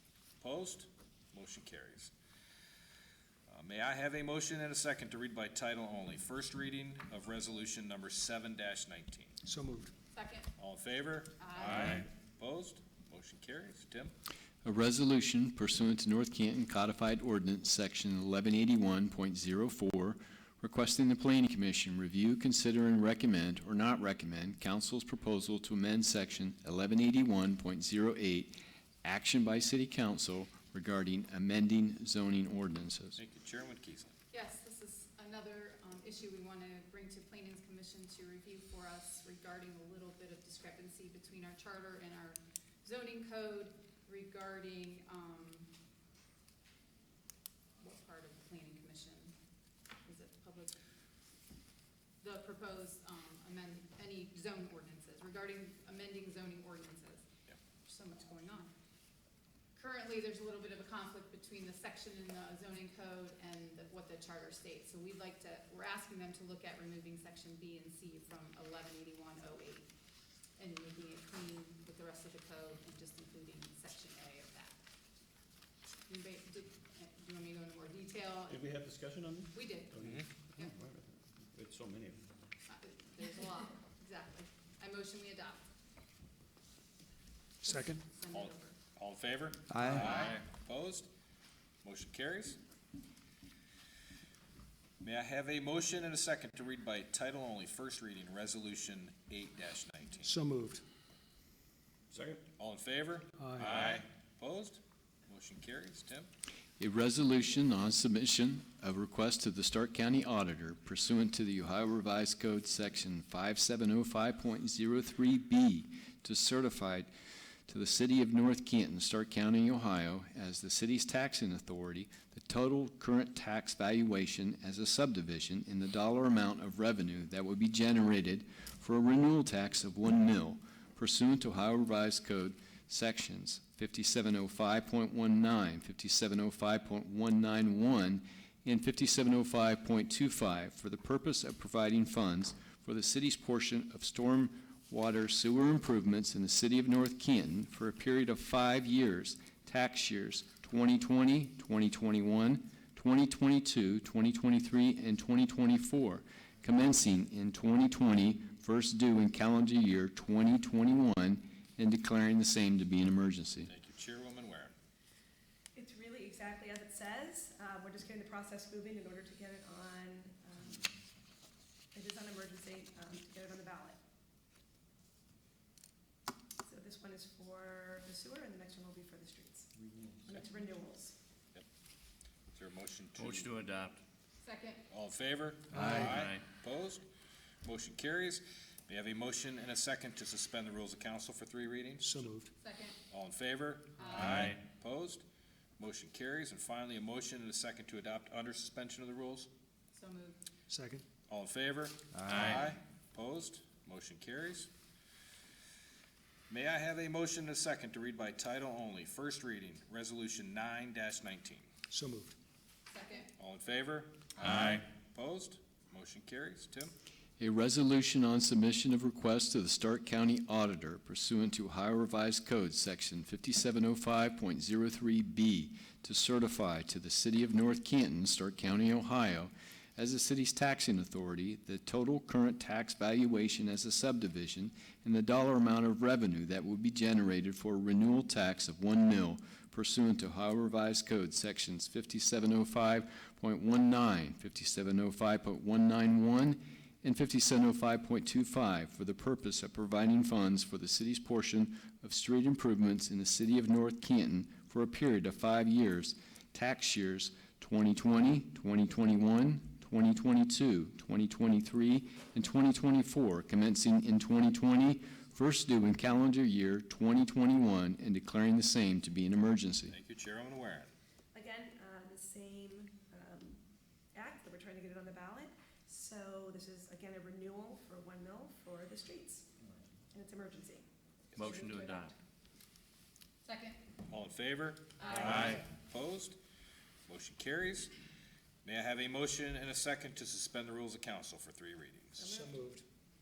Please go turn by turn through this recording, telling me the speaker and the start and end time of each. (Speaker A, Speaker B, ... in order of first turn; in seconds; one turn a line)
Speaker A: 0.4-2.1
Speaker A: 3.5-9.4
Speaker B: 9.4-9.9
Speaker C: 10.1-10.5
Speaker A: 10.6-14.1
Speaker C: 11.4-12.0
Speaker D: 14.6-33.2
Speaker A: 33.2-34.1
Speaker C: 34.3-45.7
Speaker C: 47.8-49.3
Speaker C: 50.0-50.8
Speaker C: 52.2-57.2
Speaker C: 57.8-58.7
Speaker C: 59.8-69.9
Speaker C: 70.6-74.7
Speaker C: 76.1-78.6
Speaker E: 78.5-81.0
Speaker C: 79.5-80.0
Speaker E: 81.5-82.3
Speaker C: 82.7-85.6
Speaker B: 87.6-88.0
Speaker C: 87.7-88.8
Speaker A: 88.3-91.1
Speaker F: 90.0-90.4
Speaker A: 91.8-92.6
Speaker A: 95.0-100.3
Speaker B: 100.2-100.8
Speaker E: 102.1-102.4
Speaker A: 102.6-106.3
Speaker B: 103.4-103.8
Speaker D: 106.8-117.1
Speaker D: 117.7-163.7
Speaker A: 163.7-164.7
Speaker G: 165.7-170.9
Speaker G: 171.9-174.0
Speaker G: 176.7-179.7
Speaker G: 180.2-181.2
Speaker A: 182.5-183.6
Speaker F: 183.1-184.0
Speaker C: 184.4-184.8
Speaker A: 184.9-187.0
Speaker B: 185.7-186.2
Speaker F: 185.8-186.5
Speaker A: 187.6-192.2
Speaker B: 192.0-192.5
Speaker C: 192.6-193.0
Speaker A: 193.1-195.2
Speaker C: 194.0-194.5
Speaker F: 194.1-194.6
Speaker A: 195.8-199.5
Speaker C: 199.9-200.4
Speaker B: 200.7-201.0
Speaker A: 201.3-204.7
Speaker F: 202.3-202.7
Speaker A: 206.5-211.7
Speaker B: 211.9-212.3
Speaker C: 212.9-213.3
Speaker A: 213.4-216.9
Speaker F: 214.4-214.7
Speaker D: 217.4-269.9
Speaker A: 269.9-270.9
Speaker G: 271.3-273.6
Speaker G: 274.1-279.5
Speaker G: 280.1-282.1
Speaker F: 281.4-282.1
Speaker C: 283.4-283.8
Speaker A: 284.1-286.4
Speaker C: 285.0-285.3
Speaker G: 285.0-285.6
Speaker F: 285.3-285.6
Speaker A: 287.1-287.9
Speaker A: 288.6-292.2
Speaker G: 292.2-292.6
Speaker B: 292.2-292.8